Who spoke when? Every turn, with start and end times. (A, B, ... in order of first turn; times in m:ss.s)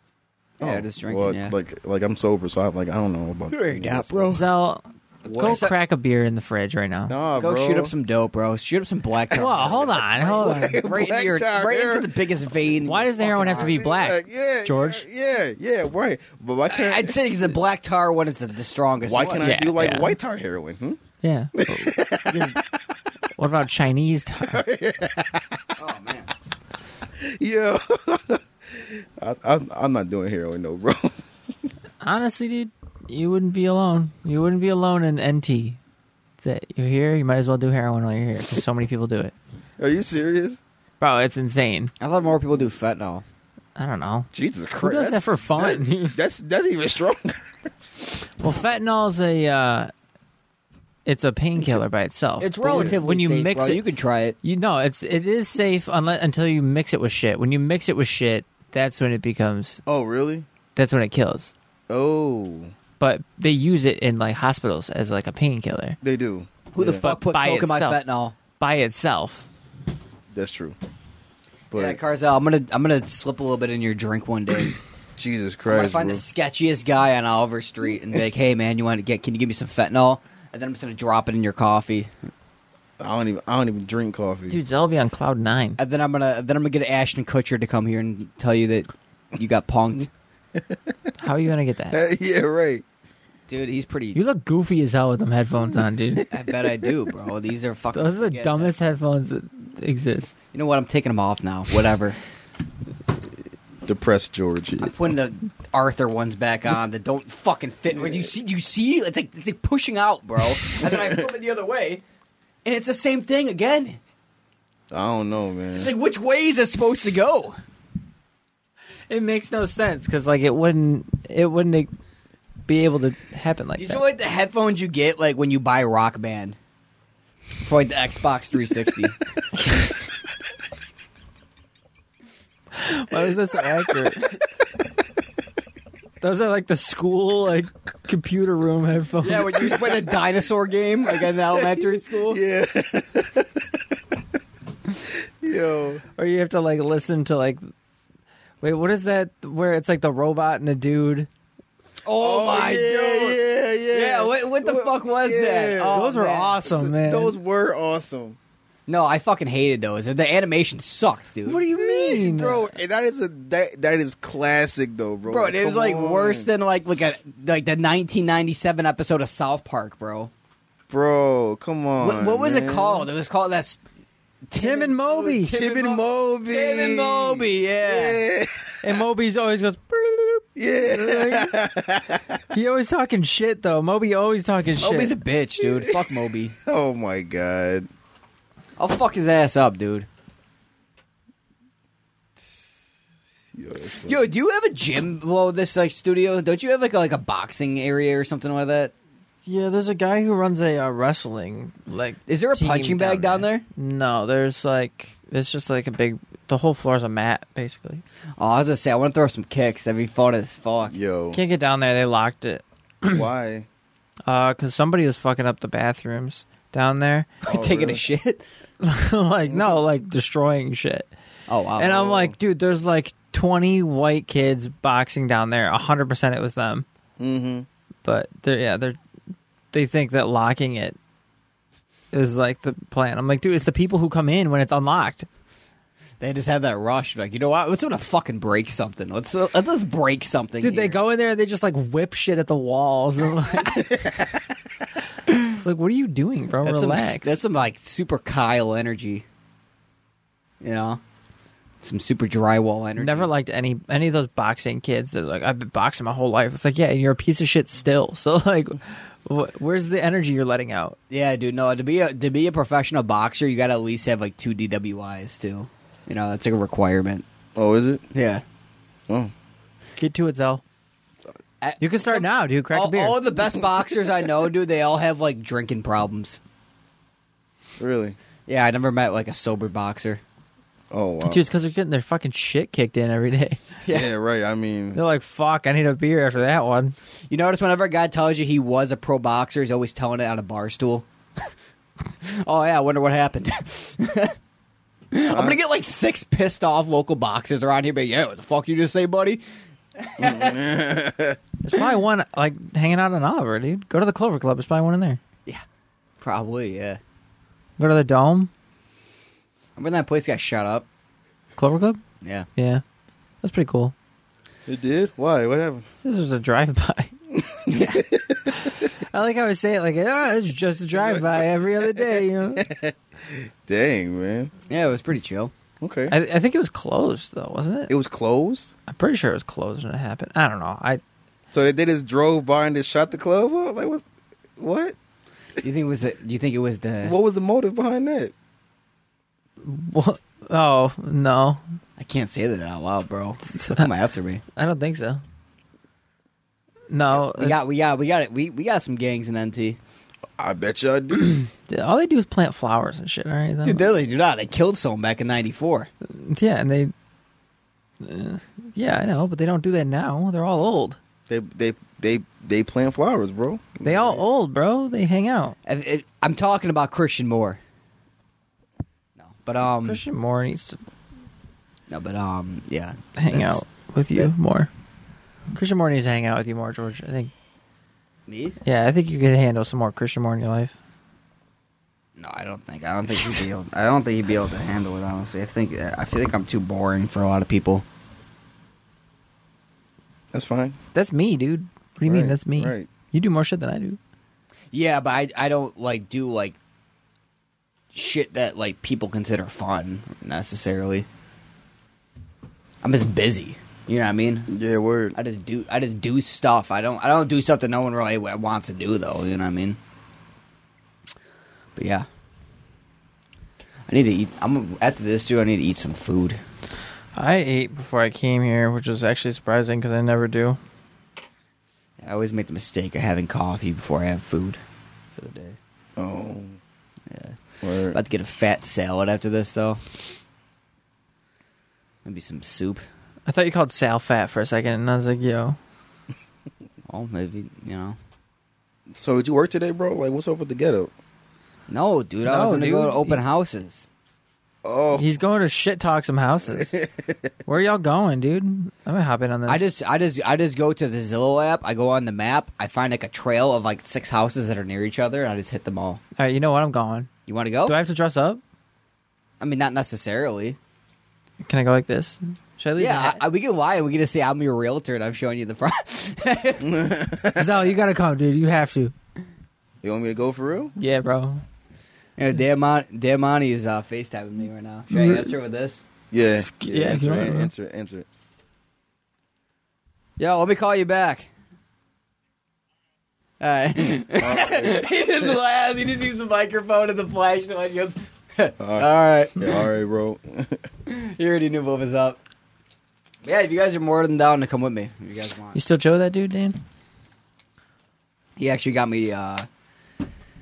0:00.6-0:01.5 A
0:00.6-0:04.4 B
0:03.5-0:04.4 A
0:04.3-0:07.1 C
0:05.2-0:05.7 B
0:05.3-0:05.8 A
0:07.1-0:07.9 B
0:07.4-0:13.8 A
0:09.3-0:10.8 C
0:09.3-0:12.2 B
0:12.8-0:15.0 C
0:13.2-0:17.6 B
0:16.7-0:19.5 A
0:19.0-0:21.0 B
0:19.4-0:20.1 C
0:21.2-0:22.6 C
0:21.6-0:22.6 B
0:23.4-0:24.6 C
0:24.4-0:25.7 B
0:25.8-0:26.3 A
0:27.2-0:31.2 B
0:32.0-0:35.8 C
0:36.4-0:39.3 C
0:39.8-0:40.6 B
0:41.0-0:41.9 C
0:42.0-0:43.2 A
0:43.8-0:44.3 C
0:44.3-0:47.7 B
0:44.8-0:46.2 C
0:48.4-0:49.9 C
0:51.0-0:53.8 C
0:52.4-0:54.4 A
0:52.7-0:53.0 B
0:54.4-0:59.8 C
0:59.8-1:00.5 B
1:00.7-1:01.5 C
1:01.9-1:02.7 B
1:03.0-1:06.0 C
1:06.0-1:07.0 B
1:06.7-1:08.3 A
1:07.0-1:08.0 C
1:08.6-1:09.5 C
1:10.3-1:10.8 B
1:11.7-1:12.0 B
1:11.7-1:14.8 A
1:15.2-1:16.2 B
1:15.7-1:22.1 A
1:23.0-1:24.6 B
1:24.5-1:25.8 C
1:25.8-1:30.1 A
1:31.2-1:32.0 C
1:31.9-1:32.8 B
1:33.5-1:34.2 A
1:34.1-1:36.3 C
1:36.3-1:38.8 A
1:37.9-1:40.3 C
1:40.5-1:42.2 A
1:43.8-1:44.9 B
1:44.8-1:52.0 A
1:47.9-1:48.3 B
1:50.8-1:51.3 B
1:52.6-1:54.0 A
1:54.9-1:55.9 B
1:55.8-1:57.6 A
1:59.1-2:01.9 C
2:02.6-2:04.0 C
2:03.8-2:06.6 A
2:07.6-2:09.2 A
2:12.7-2:14.4 C
2:16.2-2:19.6 C
2:19.2-2:22.4 A
2:19.5-2:20.2 B
2:21.1-2:23.7 B
2:25.4-2:26.0 B
2:26.2-2:27.7 C
2:28.6-2:31.3 C
2:32.0-2:33.4 A
2:32.2-2:36.1 B
2:33.9-2:36.6 A
2:35.8-2:37.4 C
2:36.6-2:38.4 B
2:38.9-2:41.6 A
2:41.4-2:42.7 C
2:41.7-2:46.5 B
2:45.3-2:50.3 A
2:50.9-2:53.1 B
2:52.0-2:53.8 A
2:54.5-2:58.2 A
2:54.5-2:55.5 C
2:55.5-2:59.0 B
2:58.8-3:01.5 C
3:00.6-3:02.4 B
3:02.5-3:05.1 C
3:04.8-3:06.5 A
3:05.6-3:07.9 B
3:08.8-3:10.1 A
3:13.5-3:14.2 B
3:14.0-3:18.9 A
3:19.4-3:28.0 C
3:22.3-3:23.6 A
3:28.4-3:30.9 A
3:30.9-3:31.4 B
3:31.3-3:33.2 C
3:33.1-3:33.7 B
3:34.3-3:37.3 C
3:37.4-3:38.0 B
3:37.4-3:38.4 A
3:38.8-3:41.1 C
3:41.5-3:42.0 A
3:41.8-3:46.8 C
3:41.8-3:42.3 B
3:47.2-3:47.7 B
3:48.0-3:49.0 C
3:49.7-3:51.0 C
3:52.1-3:55.3 C
3:56.2-4:01.0 A
4:00.6-4:03.9 C
4:03.9-4:04.3 B
4:05.5-4:07.4 C
4:06.6-4:09.2 A
4:10.6-4:11.0 A
4:11.8-4:13.3 A
4:13.0-4:21.0 C
4:21.1-4:27.2 A
4:27.6-4:28.0 B
4:28.1-4:28.4 A
4:30.0-4:30.6 C
4:31.6-4:36.4 A
4:31.8-4:33.2 C
4:37.8-4:38.2 B
4:38.5-4:40.2 A
4:40.9-4:41.4 B
4:41.2-4:43.6 C
4:43.9-4:45.0 B
4:44.9-4:47.0 C
4:47.3-4:51.0 A
4:52.2-4:54.4 A
4:55.1-4:59.4 A
4:55.3-4:55.6 B
5:00.0-5:00.6 A
5:00.2-5:01.4 B
5:01.6-5:05.2 C
5:06.2-5:07.0 A
5:07.8-5:08.5 C
5:09.8-5:10.8 A
5:11.6-5:12.0 C
5:12.2-5:12.5 A
5:12.6-5:12.8 C
5:13.4-5:13.9 C
5:14.7-5:15.8 B
5:16.0-5:17.1 C
5:17.4-5:18.5 B
5:17.7-5:18.1 A
5:18.5-5:22.6 C
5:20.9-5:24.5 B
5:24.7-5:25.5 A
5:25.8-5:26.2 B
5:26.1-5:27.9 C
5:27.9-5:28.7 B
5:28.9-5:31.0 C
5:31.5-5:34.0 B
5:34.6-5:35.0 B
5:35.6-5:37.2 A
5:37.0-5:38.3 B
5:39.6-5:41.6 C
5:42.0-5:44.4 A
5:43.6-5:43.9 C
5:44.6-5:45.2 C
5:46.9-5:47.6 C
5:47.1-5:49.8 A
5:50.4-5:51.4 B
5:51.3-5:53.9 C
5:53.6-5:55.9 A
5:56.0-5:56.9 C
5:58.0-6:01.0 C
6:01.3-6:04.2 B
6:03.8-6:05.6 C
6:05.6-6:07.6 A
6:09.2-6:10.0 A
6:09.8-6:10.8 C
6:11.9-6:13.6 A
6:13.2-6:14.7 C
6:15.5-6:17.3 C
6:18.3-6:18.6 A
6:18.6-6:20.7 C
6:22.2-6:27.8 A
6:30.3-6:30.8 B
6:30.9-6:34.0 C
6:32.0-6:32.9 B
6:34.7-6:36.6 A
6:37.9-6:41.0 A
6:42.8-6:44.5 A
6:44.5-6:45.1 B
6:45.1-6:49.8 A
6:51.8-6:52.1 A
6:53.9-6:56.4 A
6:57.2-7:00.6 C
7:02.0-7:04.6 A
7:05.1-7:05.6 A
7:06.0-7:06.6 B
7:07.1-7:07.4 A
7:07.6-7:08.0 B
7:07.9-7:09.8 A
7:12.0-7:12.8 A
7:13.3-7:15.6 C
7:16.9-7:18.0 A
7:18.9-7:20.9 B
7:21.7-7:23.9 A
7:22.2-7:23.2 C
7:24.6-7:25.1 B
7:24.9-7:26.8 C
7:26.6-7:27.2 B
7:27.4-7:29.6 C
7:29.5-7:36.0 A
7:36.2-7:37.1 C
7:37.3-7:37.8 A
7:37.6-7:38.4 C
7:39.4-7:40.6 A
7:41.4-7:43.2 C
7:42.8-7:46.6 A
7:46.6-7:47.7 B
7:47.3-7:48.9 C
7:49.8-7:50.7 B
7:50.8-7:51.4 C
7:52.2-7:55.8 A
7:54.9-7:55.2 C
7:56.1-7:58.1 B
7:56.5-7:57.5 C
8:00.2-8:01.3 A
8:03.4-8:09.5 A
8:04.1-8:04.9 B
8:08.6-8:10.6 B
8:10.8-8:12.2 A
8:13.2-8:15.6 A
8:15.5-8:16.6 C
8:18.4-8:19.4 A